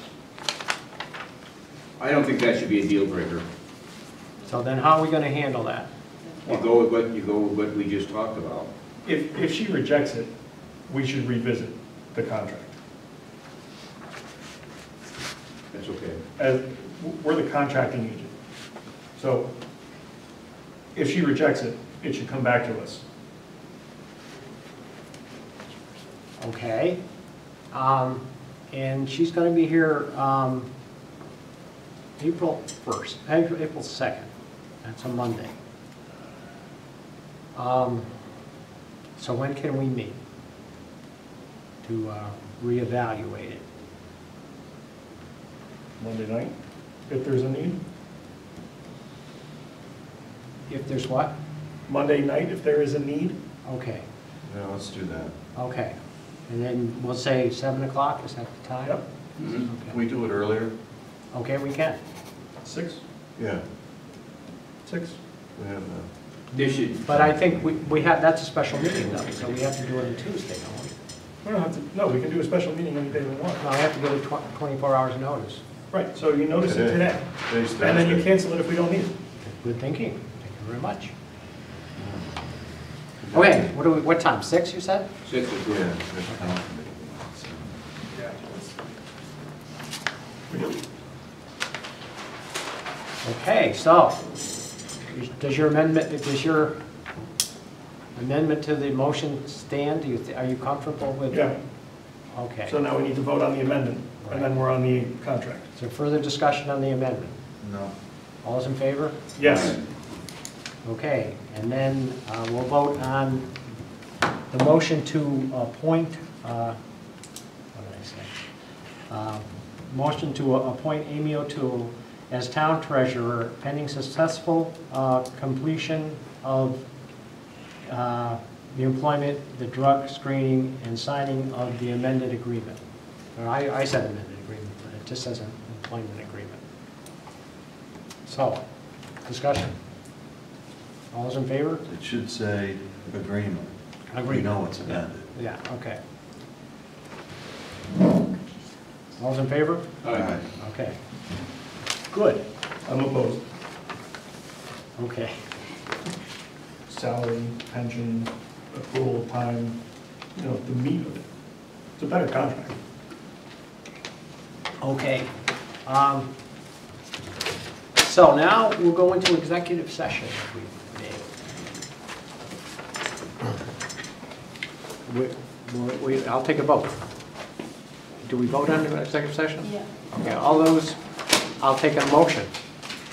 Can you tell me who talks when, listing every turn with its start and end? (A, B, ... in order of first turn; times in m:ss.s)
0:02.0-0:03.5 A
0:04.5-0:05.9 B
0:06.4-0:08.7 A
0:09.0-0:10.3 C
0:10.9-0:12.7 C
0:15.7-0:16.2 A
0:16.4-0:18.3 C
0:19.2-0:19.5 C
0:21.0-0:23.0 C
0:26.4-0:27.0 B
0:27.7-0:30.7 B
0:32.2-0:34.3 B
0:34.8-0:35.6 B
0:37.6-0:38.1 B
0:39.2-0:40.2 B
0:41.8-0:43.6 B
0:46.0-0:46.6 C
0:47.1-0:47.8 C
0:50.7-0:51.4 B
0:51.9-0:53.4 C
0:53.6-0:54.0 B
0:54.4-0:55.4 D
0:55.6-0:56.0 B
0:56.5-0:59.0 B
0:59.4-0:59.6 A
0:59.6-1:00.8 D
1:01.3-1:02.0 B
1:02.6-1:03.0 C
1:03.4-1:03.6 D
1:04.8-1:05.2 C
1:05.6-1:06.1 D
1:06.5-1:11.0 B
1:06.5-1:07.2 A
1:11.4-1:13.6 C
1:13.6-1:15.6 B
1:15.9-1:19.1 C
1:16.6-1:18.2 D
1:19.4-1:21.1 B
1:22.0-1:22.3 D
1:23.2-1:23.8 D
1:23.3-1:25.1 B
1:25.2-1:25.9 A
1:25.7-1:27.8 D
1:28.1-1:28.7 C
1:30.5-1:30.8 C
1:33.2-1:34.2 B
1:35.2-1:36.8 B
1:38.2-1:41.5 B
1:41.3-1:41.6 C
1:42.3-1:42.8 B
1:42.7-1:45.7 C
1:44.2-1:44.6 B
1:45.8-1:47.4 B
1:47.6-1:47.9 D
1:48.4-1:49.2 B
1:49.4-1:49.8 C
1:50.8-1:53.5 B
1:54.5-1:56.8 B
1:57.7-1:58.3 B
1:59.1-2:06.8 B
2:07.8-2:12.8 B
2:13.4-2:16.6 B
2:18.3-2:18.6 B
2:19.2-2:19.8 B
2:21.1-2:21.8 B
2:21.9-2:23.8 D
2:24.1-2:26.0 B
2:24.3-2:25.3 D
2:29.2-2:29.9 B
2:30.0-2:30.4 A
2:30.1-2:30.5 D
2:30.5-2:31.0 B
2:32.1-2:32.4 B
2:32.9-2:33.4 C
2:35.0-2:35.4 B
2:36.9-2:39.8 C
2:40.4-2:41.2 C
2:42.0-2:42.8 C
2:44.8-2:45.3 B
2:45.9-2:46.3 B
2:48.0-2:51.3 B
2:55.1-2:56.9 B
2:58.2-3:01.0 B
3:01.6-3:02.5 B